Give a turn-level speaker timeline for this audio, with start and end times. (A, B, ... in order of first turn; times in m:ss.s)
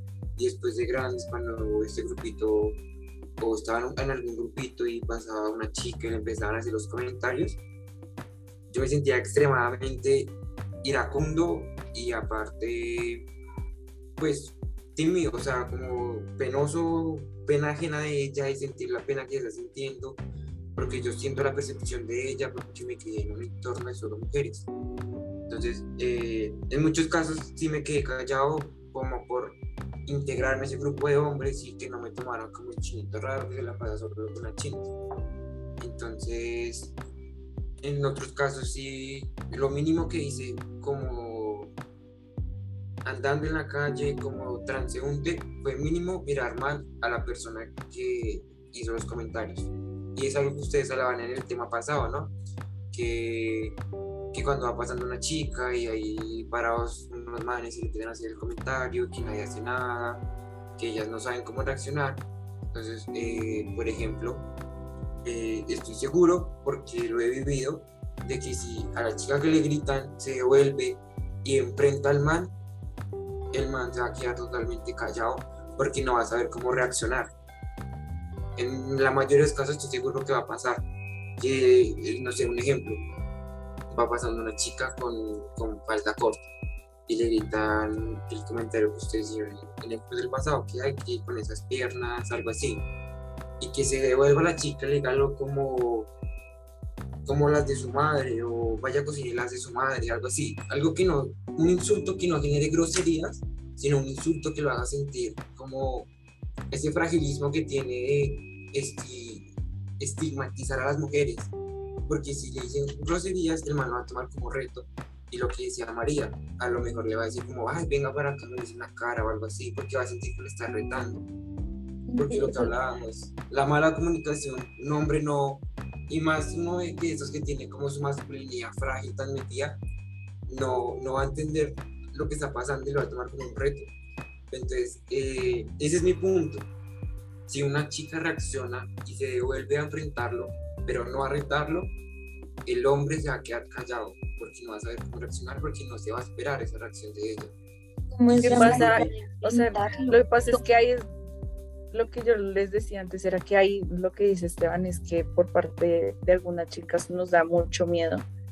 0:00.4-0:02.8 A
0:03.4-0:07.6 A
0:08.7-0:13.3 A
0:14.2-0:20.2 A
0:20.8-0:24.7 A
0:25.5-0:34.9 A
0:35.8-0:36.9 A
0:37.8-0:41.7 A
0:43.0-0:52.3 A
0:52.9-0:53.8 A
0:54.3-1:00.2 A
1:00.8-1:04.5 A
1:05.2-1:12.6 A
1:13.5-1:17.3 A
1:18.6-1:20.8 A
1:21.4-1:23.0 A
1:23.9-1:26.5 A
1:27.1-1:32.8 A
1:33.6-1:36.1 A
1:37.2-1:46.1 A
1:46.7-1:51.5 A
1:52.1-2:01.2 A
2:02.1-2:02.7 B
2:02.2-2:09.8 A
2:10.5-2:13.9 A
2:14.5-2:16.7 A
2:17.5-2:21.9 A
2:22.6-2:27.5 A
2:28.1-2:30.6 B
2:28.4-2:31.1 C
2:28.4-2:29.0 A
2:31.9-2:38.2 C